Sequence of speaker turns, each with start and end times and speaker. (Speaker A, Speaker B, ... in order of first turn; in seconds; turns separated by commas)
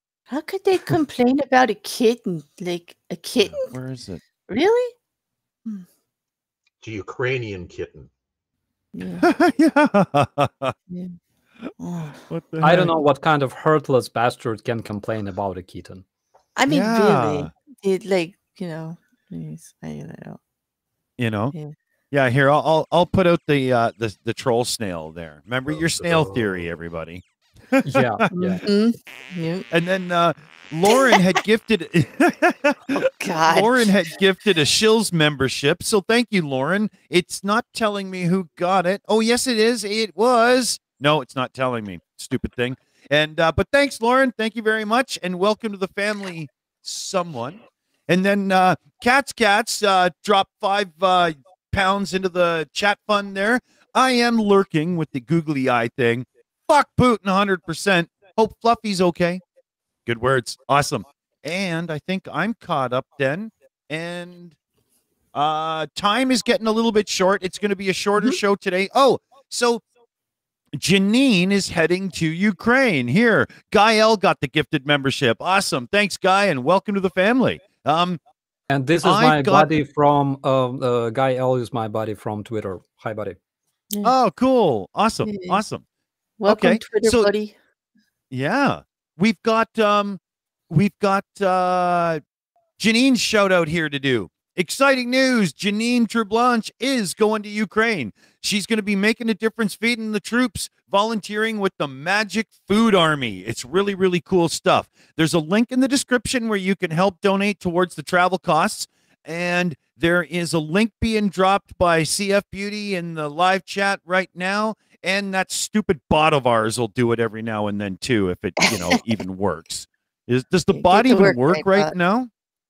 Speaker A: 0.3-3.7, Speaker B: 3.5-4.2, Speaker A: 4.5-4.9, Speaker C: 6.8-8.1, Speaker A: 8.9-9.3, Speaker B: 9.2-10.7, Speaker A: 10.9-11.1, Speaker A: 11.8-12.2, Speaker B: 12.3-12.9, Speaker D: 12.6-16.0, Speaker A: 16.6-20.4, Speaker B: 16.7-17.5, Speaker B: 21.2-21.5, Speaker B: 22.1-28.3, Speaker C: 25.7-26.6, Speaker D: 27.8-28.6, Speaker A: 28.3-29.7, Speaker B: 29.7-59.4, Speaker A: 30.9-31.3, Speaker A: 32.9-33.9, Speaker B: 60.0-64.5, Speaker B: 65.3-69.8, Speaker B: 70.8-78.2, Speaker D: 78.7-83.4, Speaker B: 79.0-79.7, Speaker B: 84.0-85.8, Speaker A: 85.2-85.6, Speaker A: 86.4-87.5, Speaker B: 86.5-87.3, Speaker B: 88.3-92.2, Speaker B: 92.8-122.3, Speaker A: 118.6-119.0, Speaker A: 120.7-121.9